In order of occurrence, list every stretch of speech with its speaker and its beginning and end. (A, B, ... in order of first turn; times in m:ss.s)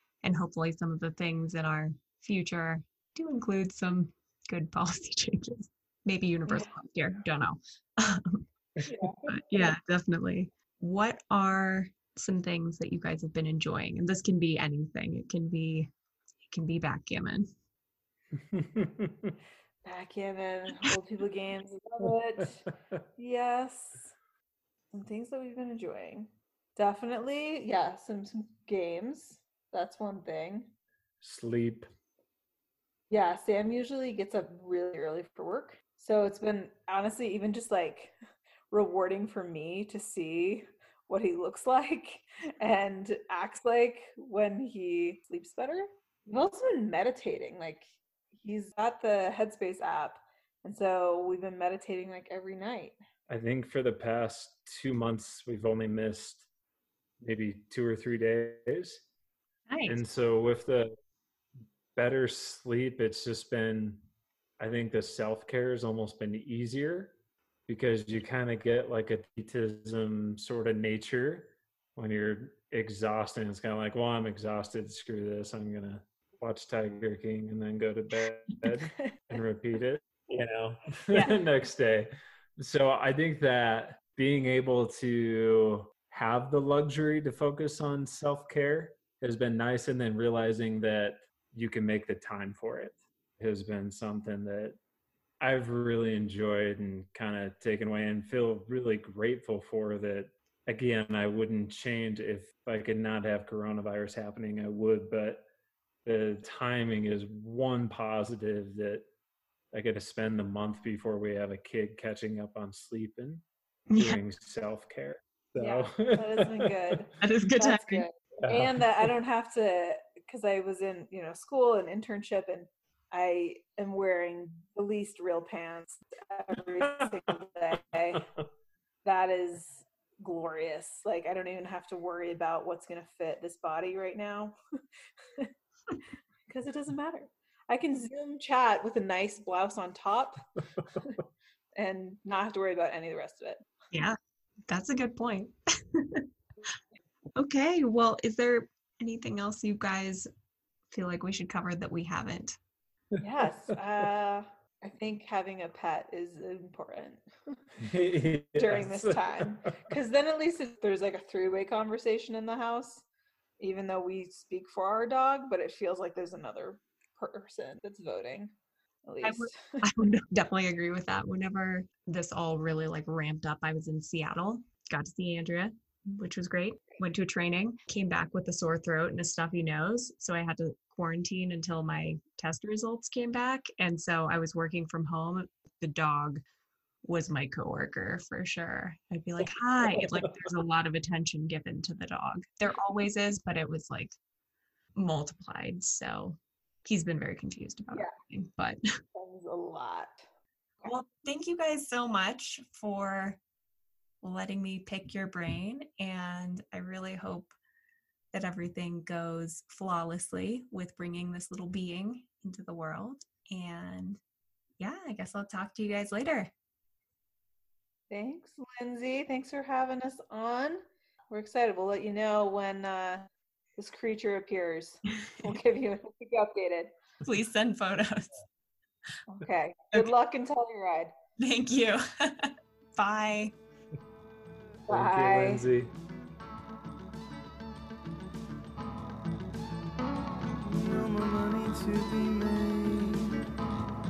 0:00.2-0:08.4 A
0:06.5-0:06.7 B
0:08.8-0:09.7 B
0:09.2-0:15.9 A
0:16.5-0:17.5 A
0:18.4-0:19.4 C
0:19.8-0:24.1 B
0:24.9-0:30.7 B
0:31.2-0:31.9 C
0:33.1-0:38.1 B
0:38.7-0:53.0 B
0:53.3-0:56.4 C
0:57.2-0:59.0 C
0:59.7-1:00.0 A
0:59.8-1:00.9 C
1:01.9-1:04.0 C
1:04.6-1:07.2 C
1:07.7-1:34.8 C
1:19.0-1:19.3 B
1:35.4-1:45.4 C
1:46.0-1:49.0 C
1:49.7-1:53.4 C
1:53.9-1:54.2 A
1:54.0-1:56.9 C
1:55.6-2:08.3 B
1:57.2-1:58.0 A
1:58.4-1:58.8 C
2:08.1-2:08.4 C
2:09.0-2:14.5 B
2:16.5-2:21.2 B
2:21.8-2:23.6 B
2:24.7-2:26.2 A
2:27.4-2:30.3 A
2:30.9-2:32.6 A
2:33.1-2:33.5 C
2:33.2-2:37.6 B
2:37.8-2:39.7 C
2:38.6-2:43.0 B
2:43.6-2:48.5 B
2:49.0-2:49.8 B
2:49.2-3:06.4 A
3:07.0-3:14.2 A
3:15.0-3:18.8 A
3:19.1-3:20.2 B
3:20.8-3:23.4 A
3:24.2-3:27.5 A
3:28.3-3:34.2 A
3:34.8-3:36.5 A
3:38.1-3:46.9 B
3:45.2-3:45.5 A
3:47.2-3:48.4 A
3:49.3-3:51.1 B
3:51.4-3:53.5 A
3:54.9-3:55.6 B
3:54.9-3:55.9 C
4:00.6-4:03.5 D